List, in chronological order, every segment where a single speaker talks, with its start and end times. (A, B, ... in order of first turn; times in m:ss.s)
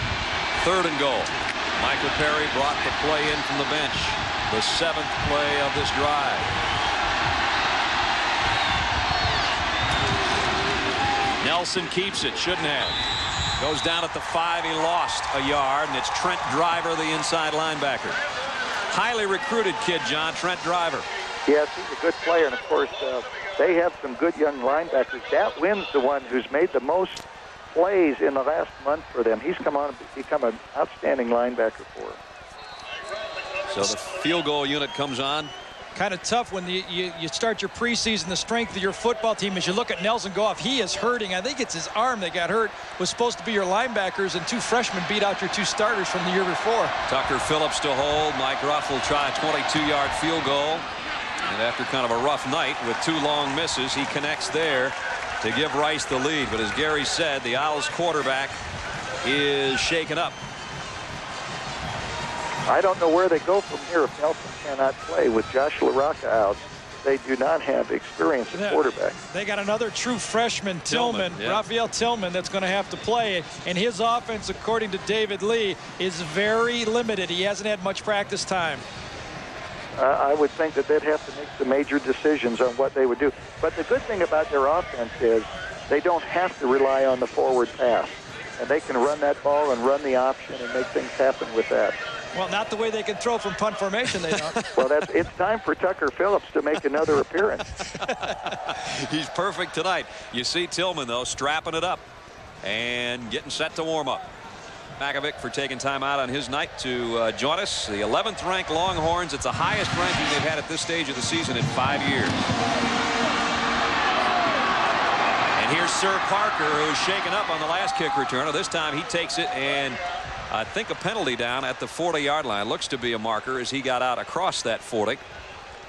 0:00.6-0:06.5 A
0:11.4-0:13.0 A
0:13.6-0:18.2 A
0:18.9-0:21.1 A
0:21.5-0:32.2 B
0:33.7-0:35.5 A
0:36.0-0:46.9 C
0:47.1-0:50.9 A
0:51.4-0:58.6 A
0:59.2-1:00.4 A
1:02.7-1:09.2 B
1:08.5-1:18.8 C
1:10.9-1:11.6 A
1:20.0-1:32.0 B
1:32.3-1:34.7 C
1:34.7-1:37.8 B
1:38.2-1:42.0 A
1:42.6-1:44.3 A
1:45.0-1:52.4 A
1:55.6-2:05.2 A